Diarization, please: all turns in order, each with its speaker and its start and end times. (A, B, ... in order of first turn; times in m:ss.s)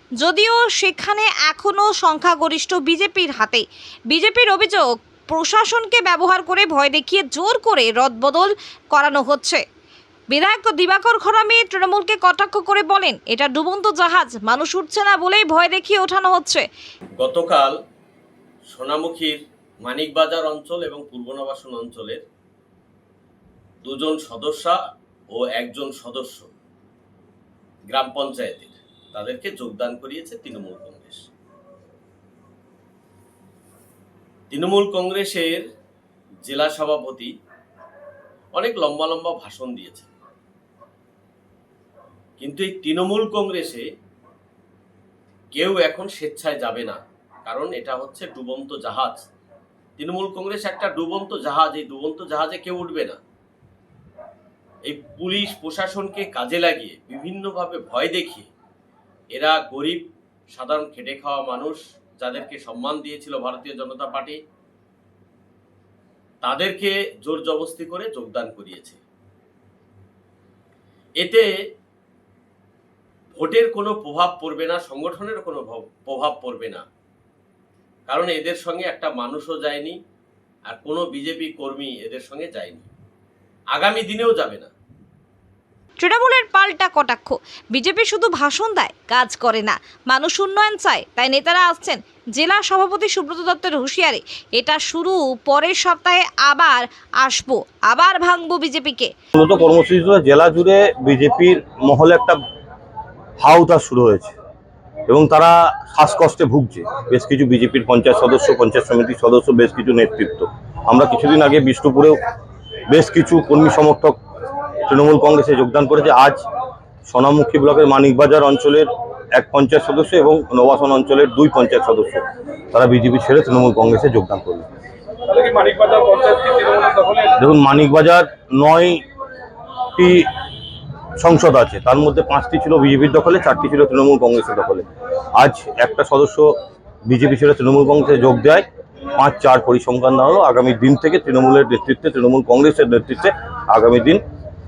0:00.2-0:09.6 A
0:10.3-0:16.6 A
0:17.2-0:17.8 B
0:18.7-0:22.2 B
0:23.8-0:24.8 B
0:25.3-0:26.5 B
0:27.9-0:31.3 B
0:34.5-0:35.6 B
0:36.4-0:37.3 B
0:38.6-0:40.1 B
0:42.4-0:43.8 B
0:45.6-0:49.2 B
0:50.0-0:53.2 B
0:54.9-0:58.5 B
0:59.3-1:04.4 B
1:06.4-1:09.0 B
1:11.2-1:11.5 B
1:13.4-1:16.8 B
1:18.1-1:20.0 B
1:20.7-1:22.9 B
1:23.7-1:24.7 B
1:26.0-1:39.1 A
1:39.4-1:42.4 C
1:43.4-1:44.4 C
1:45.1-1:52.2 C
1:52.9-1:54.2 C
1:54.9-1:56.4 C
1:57.1-2:04.7 C
2:05.3-2:07.3 D
2:07.4-2:09.0 C
2:10.0-2:10.3 C
2:11.2-2:14.8 C
2:15.4-2:16.5 C
2:17.0-2:18.7 C
2:19.2-2:24.2 C